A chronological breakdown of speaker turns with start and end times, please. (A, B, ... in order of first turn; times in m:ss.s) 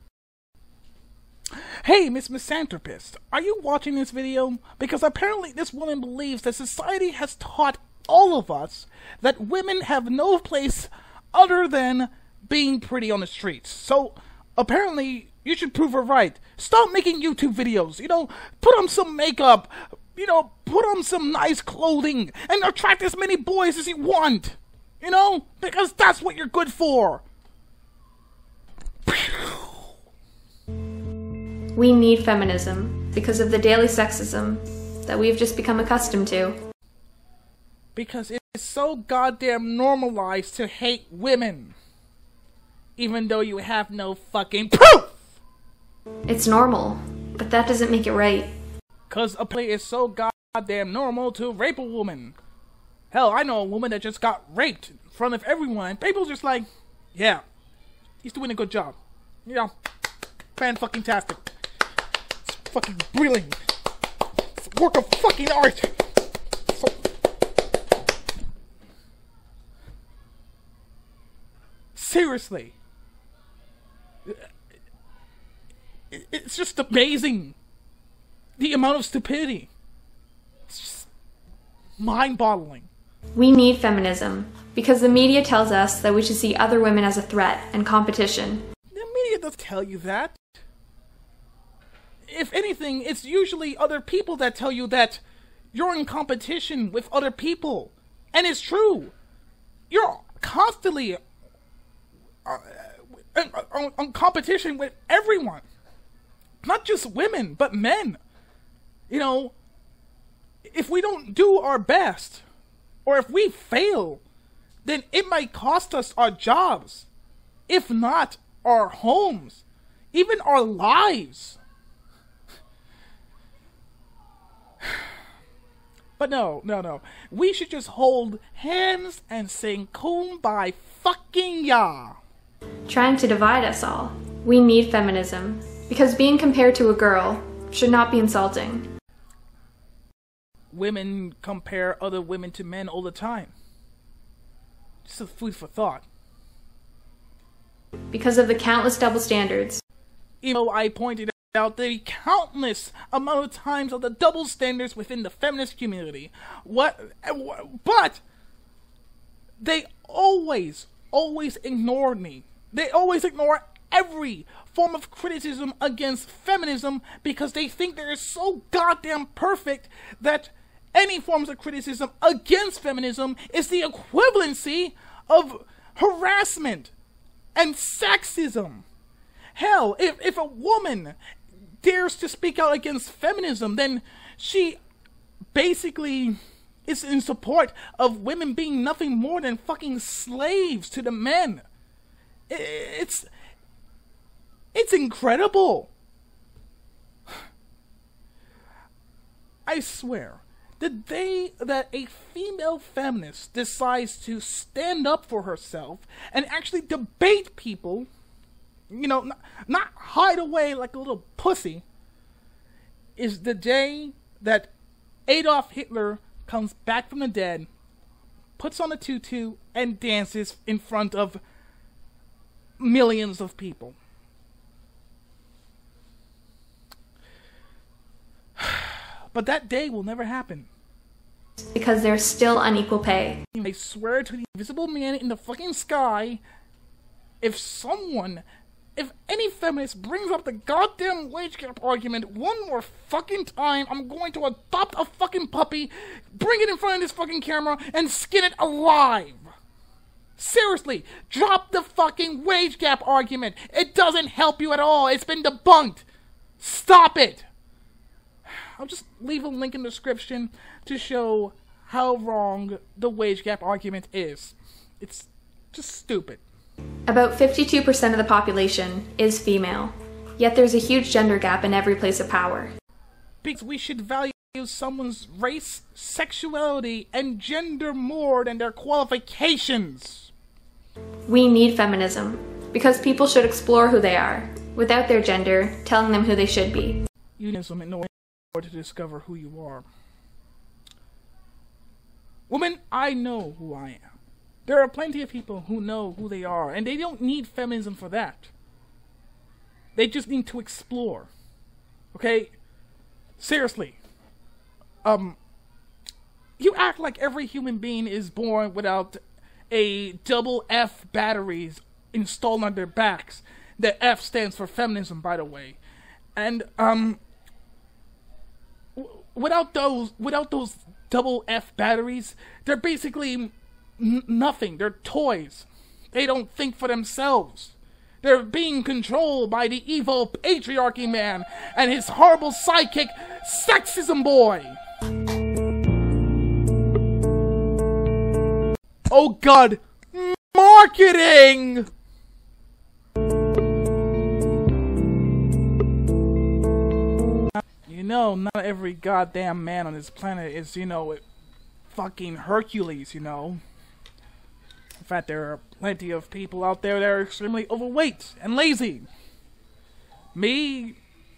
0:01.8-0:27.2 A
0:29.0-0:29.9 A
0:31.8-0:36.6 B
0:37.9-0:41.7 A
0:43.0-0:45.4 A
0:46.3-0:48.5 B
0:49.1-0:52.3 A
0:53.1-0:57.4 A
0:58.2-0:59.7 A
1:00.6-1:01.4 A
1:02.5-1:03.6 A
1:04.5-1:06.0 A
1:06.7-1:07.0 A
1:11.9-1:12.7 A
1:16.1-1:17.6 A
1:18.6-1:19.7 A
1:20.7-1:21.1 A
1:22.0-1:22.9 A
1:23.4-1:28.6 B
1:28.9-1:30.4 A
1:32.3-1:35.2 A
1:35.7-1:39.1 A
1:39.9-1:41.2 A
1:42.4-1:45.6 A
1:46.6-1:48.2 A
1:49.1-1:49.5 A
1:50.6-1:52.4 A
1:53.0-1:54.2 A
1:54.8-1:57.1 A
1:57.7-2:01.6 A
2:06.2-2:12.2 A
2:12.9-2:18.9 B
2:20.7-2:23.5 A
2:25.0-2:26.0 A
2:28.1-2:29.8 B
2:30.4-2:38.2 A
2:39.6-2:56.9 A
2:57.5-2:58.8 A
2:59.6-3:01.2 A
3:01.8-3:04.8 A
3:05.5-3:11.6 A
3:12.5-3:13.3 A
3:14.7-3:15.9 A
3:19.6-3:28.1 A
3:28.9-3:31.8 A
3:33.2-3:34.7 A
3:35.3-3:37.7 A
3:38.6-3:41.4 A
3:42.8-3:44.0 A
3:48.6-3:50.7 A
3:51.6-3:53.4 B
3:53.5-3:56.4 A
3:57.4-3:58.4 A
3:59.0-4:09.4 A
4:10.4-4:16.0 A
4:16.6-4:17.5 A
4:18.5-4:26.4 A
4:27.1-4:32.7 B
4:33.4-4:40.3 A
4:41.3-4:47.0 B
4:47.4-4:49.8 A
4:52.5-4:54.1 A
4:54.6-4:58.5 A
4:59.9-5:01.3 A
5:02.1-5:02.5 A
5:03.4-5:04.0 A
5:05.0-5:05.4 A
5:06.6-5:15.8 A
5:16.4-5:17.2 A
5:19.0-5:34.8 A
5:39.1-5:41.9 A
5:47.8-5:51.2 A
5:51.9-5:53.6 A
5:55.0-5:59.1 A
6:00.3-6:01.0 A